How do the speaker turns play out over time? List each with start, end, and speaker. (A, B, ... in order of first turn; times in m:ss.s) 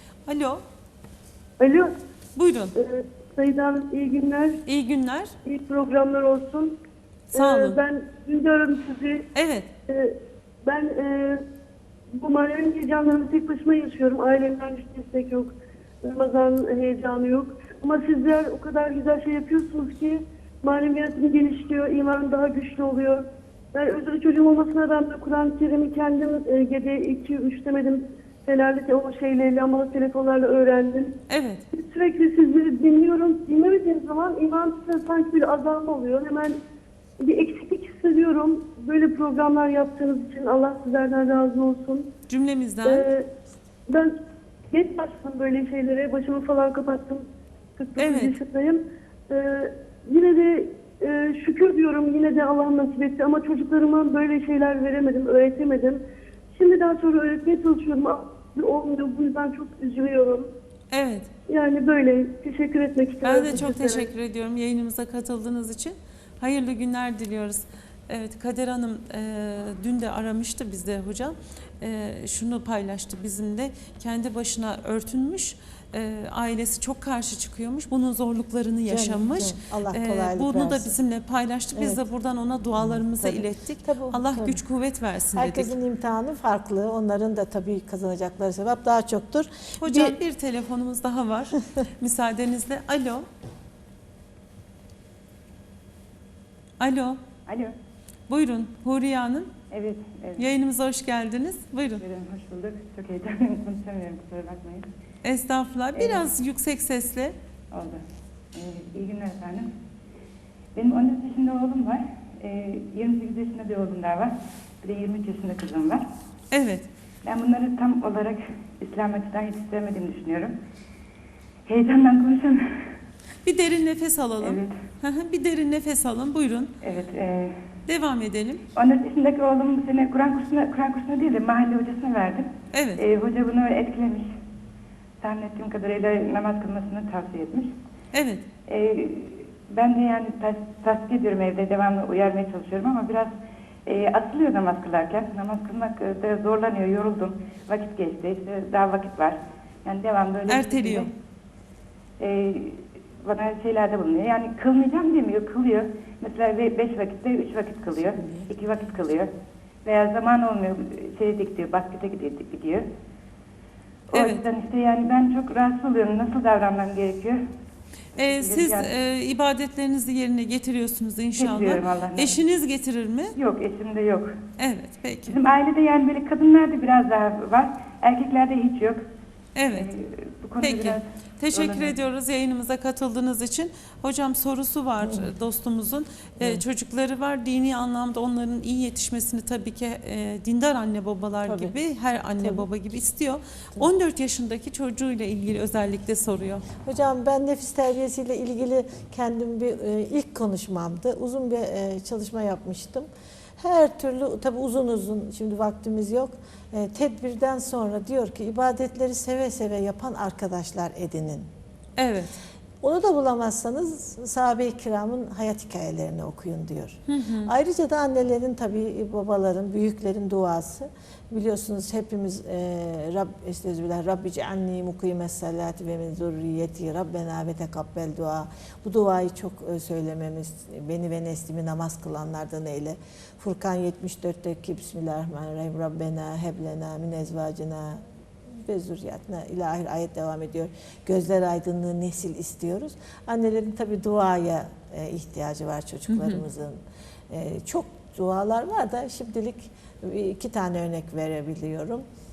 0:00.2-0:00.6 A
0:01.6-0:01.9 B
0:02.3-0:02.7 A
0:02.8-0:04.6 B
0:04.6-0:05.3 A
0:05.4-0:06.7 B
0:07.3-0:07.8 A
0:07.3-0:09.3 B
0:09.3-0:09.7 A
0:09.9-0:11.4 B
0:12.1-0:31.2 B
0:31.3-0:31.6 A
0:31.7-0:36.6 B
0:37.2-0:42.1 B
0:42.3-0:43.1 A
0:42.8-0:43.3 B
0:43.9-0:44.1 B
0:44.7-0:47.2 B
0:47.8-0:56.0 B
0:48.0-0:48.4 A
0:56.5-1:00.5 B
1:00.9-1:01.3 A
1:01.5-1:04.1 B
1:03.2-1:25.7 A
1:18.9-1:21.0 C
1:21.7-1:22.0 C
1:22.8-1:24.6 C
1:25.3-1:30.2 C
1:29.8-1:33.2 A
1:36.8-1:37.2 A
1:37.4-1:37.7 D
1:38.3-1:39.5 A
1:39.7-1:40.4 D
1:40.4-1:42.0 A
1:42.0-1:44.9 D
1:45.2-1:47.4 A
1:46.0-1:46.3 D
1:47.7-1:48.0 D
1:48.5-1:49.7 D
1:50.7-1:56.1 D
1:56.5-1:56.9 A
1:57.2-2:00.6 D
2:01.6-2:03.0 D
2:03.4-2:06.7 A
2:04.4-2:04.8 D
2:06.8-2:07.6 D
2:07.8-2:08.6 A
2:08.7-2:14.3 D
2:12.7-2:13.0 A
2:15.2-2:17.7 D
2:18.1-2:18.4 A
2:18.7-2:31.1 D
2:30.5-2:31.1 A
2:32.2-2:39.3 D
2:38.2-2:38.5 C
2:39.8-2:42.9 D
2:44.1-2:44.4 A
2:44.1-2:47.4 D
2:48.2-2:53.3 A
2:48.3-2:48.9 D
2:51.4-2:52.4 D
2:53.4-2:54.4 D
2:54.6-2:55.4 A
2:55.3-2:59.0 D
2:59.6-2:59.9 A
2:59.7-3:01.9 D
3:00.6-3:16.7 A
3:11.4-3:11.7 C
3:12.4-3:12.6 C
3:16.8-3:23.1 C
3:23.6-3:31.4 C
3:32.0-3:32.4 A
3:32.8-4:12.0 C
3:37.1-3:37.5 A
4:06.1-4:06.4 A